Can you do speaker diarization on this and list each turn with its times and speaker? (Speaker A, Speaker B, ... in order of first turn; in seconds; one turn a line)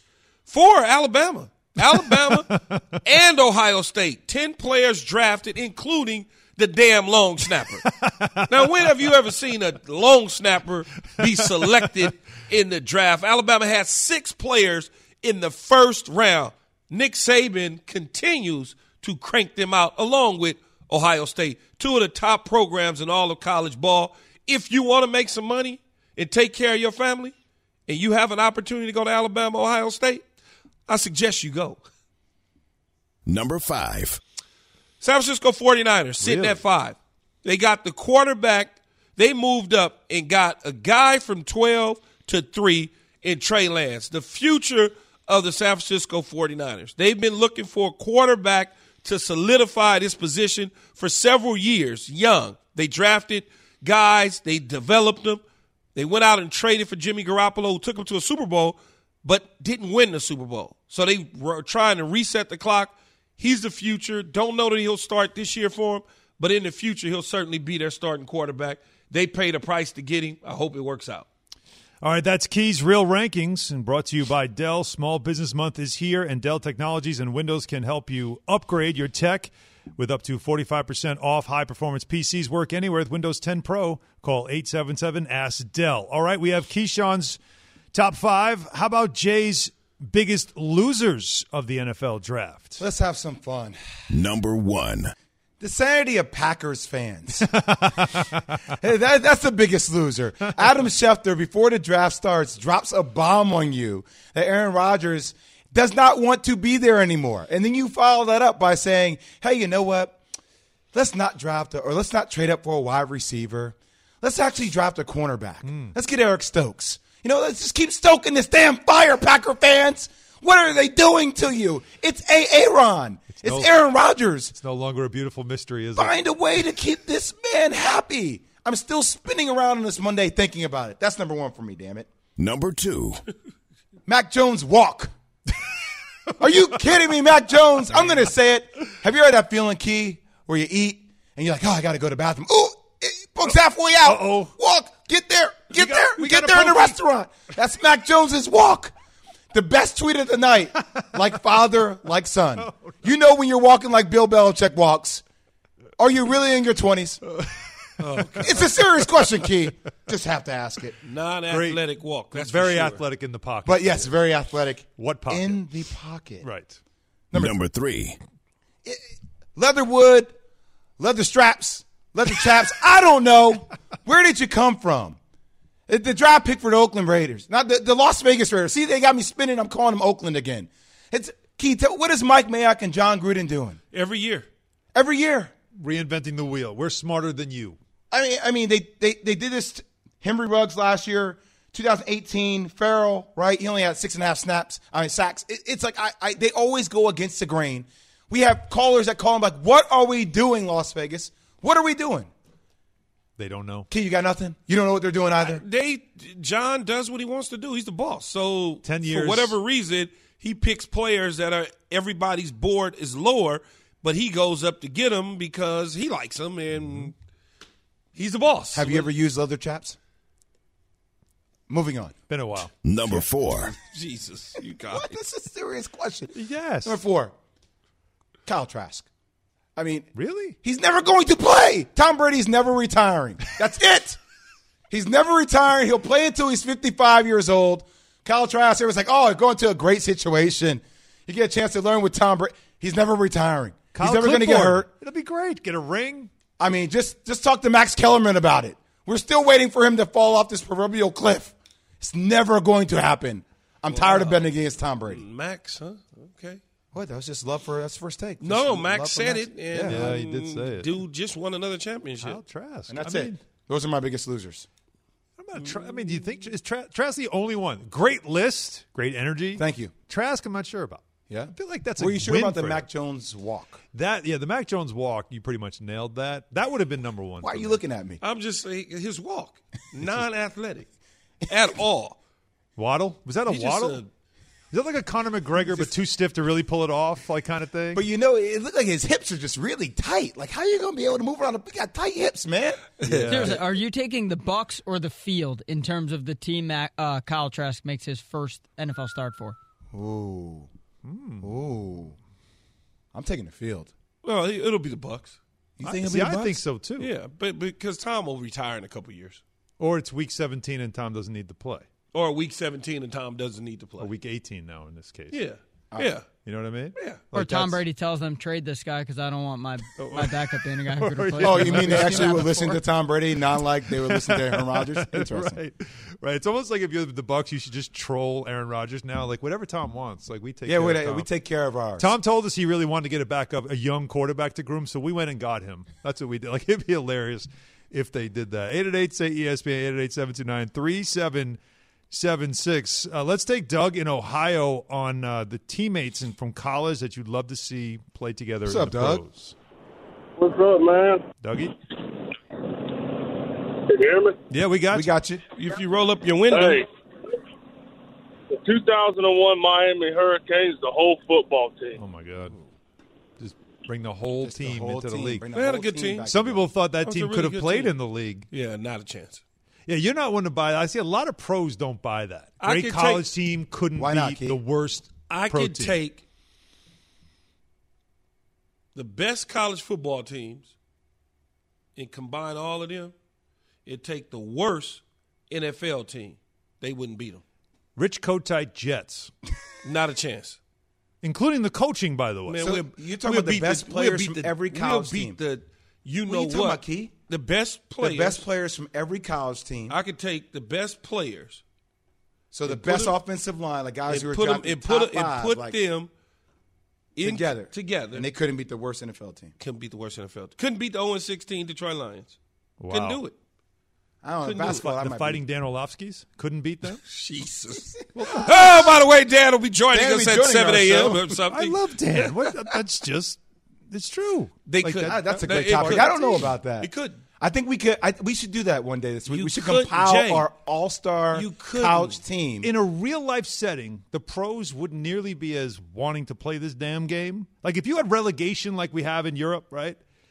Speaker A: 0.5-7.9
Speaker B: 2.0-2.8
Speaker B: 7.8-8.9
Speaker A: 8.5-27.3
Speaker B: 11.2-11.9
Speaker A: 27.9-30.2
Speaker A: 30.9-31.8
Speaker C: 33.3-34.2
Speaker A: 35.0-55.4
Speaker B: 36.2-36.6
Speaker A: 56.0-71.3
Speaker B: 72.0-87.4
Speaker B: 87.9-92.8
Speaker D: 92.8-93.8
Speaker C: 94.1-95.1
Speaker D: 95.6-97.6
Speaker B: 97.5-98.3
Speaker D: 98.7-110.2
Speaker D: 110.9-124.5
Speaker B: 115.7-115.9
Speaker B: 123.4-123.7
Speaker B: 124.6-126.2
Speaker D: 126.0-132.1
Speaker C: 132.4-133.2
Speaker D: 134.1-135.1
Speaker D: 136.4-148.9
Speaker B: 144.1-144.5
Speaker B: 145.7-146.9
Speaker D: 149.5-155.2
Speaker B: 152.6-153.0
Speaker D: 156.0-157.2
Speaker A: 158.0-158.7
Speaker D: 158.4-161.0
Speaker A: 161.0-163.0
Speaker B: 161.5-164.1
Speaker D: 163.7-166.5
Speaker B: 165.0-165.6
Speaker B: 166.4-166.8
Speaker C: 167.3-168.2
Speaker D: 169.6-170.3
Speaker D: 171.0-175.2
Speaker D: 175.9-183.8
Speaker A: 183.9-184.5
Speaker D: 184.9-185.5
Speaker B: 185.8-187.8
Speaker D: 188.1-202.3
Speaker B: 203.4-203.9
Speaker D: 203.9-205.6
Speaker A: 205.4-217.1
Speaker B: 208.8-209.6
Speaker A: 218.2-219.1
Speaker D: 218.7-220.0
Speaker D: 221.7-222.2
Speaker B: 222.3-222.7
Speaker C: 222.8-223.7
Speaker A: 223.8-225.2
Speaker D: 224.9-227.3
Speaker B: 226.3-227.0
Speaker D: 228.5-229.1
Speaker D: 229.8-230.1
Speaker B: 230.2-230.6
Speaker D: 230.6-234.2
Speaker D: 234.9-244.9
Speaker B: 243.9-246.3
Speaker D: 246.6-255.2
Speaker A: 253.9-256.6
Speaker D: 256.9-260.2
Speaker A: 258.4-262.4
Speaker B: 259.8-261.0
Speaker B: 262.2-263.4
Speaker D: 262.9-264.7
Speaker B: 265.4-272.9
Speaker D: 269.6-269.9
Speaker D: 271.3-273.8
Speaker B: 273.9-277.8
Speaker D: 277.4-278.2
Speaker A: 278.2-280.9
Speaker A: 281.5-282.2
Speaker B: 282.8-284.0
Speaker A: 283.5-284.1
Speaker B: 284.7-288.0
Speaker D: 287.9-293.6
Speaker B: 293.0-293.6
Speaker E: 293.3-299.6
Speaker D: 299.9-300.7
Speaker B: 301.1-301.6
Speaker D: 301.4-302.1
Speaker D: 303.1-303.9
Speaker A: 304.2-305.4
Speaker D: 305.8-306.6
Speaker B: 305.8-307.1
Speaker A: 307.0-309.4
Speaker B: 309.8-311.9
Speaker A: 312.1-314.1
Speaker B: 314.0-315.4
Speaker A: 315.3-316.3
Speaker B: 316.4-317.8
Speaker A: 317.0-317.3
Speaker E: 317.3-322.8
Speaker B: 320.0-322.8
Speaker D: 321.4-325.6
Speaker B: 323.9-331.3
Speaker D: 330.6-332.1
Speaker B: 332.0-341.6
Speaker B: 342.1-349.5
Speaker D: 348.7-349.2
Speaker F: 350.4-351.2
Speaker B: 351.4-351.8
Speaker F: 353.9-354.4
Speaker B: 354.5-355.1
Speaker D: 354.9-355.4
Speaker A: 355.6-356.8
Speaker F: 356.5-356.9
Speaker F: 358.5-362.0
Speaker B: 362.0-362.6
Speaker B: 363.4-365.4
Speaker D: 364.4-366.6
Speaker A: 365.5-366.3
Speaker B: 366.3-368.5
Speaker A: 367.0-367.9
Speaker A: 368.5-369.4
Speaker B: 369.9-376.0
Speaker A: 372.6-373.3
Speaker D: 374.0-374.6
Speaker A: 375.3-376.2
Speaker A: 378.9-380.7
Speaker A: 382.0-383.1
Speaker A: 383.9-387.4
Speaker B: 388.0-389.3
Speaker A: 389.8-390.6
Speaker B: 391.2-392.7
Speaker A: 392.5-398.5
Speaker D: 392.6-395.4
Speaker D: 396.3-397.1
Speaker D: 398.0-400.0
Speaker A: 399.9-401.6
Speaker D: 402.5-405.8
Speaker A: 402.7-403.2
Speaker A: 404.1-406.1
Speaker A: 407.2-408.3
Speaker D: 407.2-409.5
Speaker A: 409.6-412.4
Speaker B: 412.8-413.2
Speaker A: 412.9-413.3
Speaker D: 414.2-415.4
Speaker A: 414.4-414.9
Speaker B: 414.8-417.0
Speaker A: 417.1-422.6
Speaker B: 418.1-419.0
Speaker D: 419.9-421.4
Speaker B: 421.5-423.4
Speaker B: 423.9-426.5
Speaker A: 424.7-427.2
Speaker D: 424.8-432.7
Speaker A: 429.3-430.5
Speaker A: 431.3-432.2
Speaker B: 432.6-440.0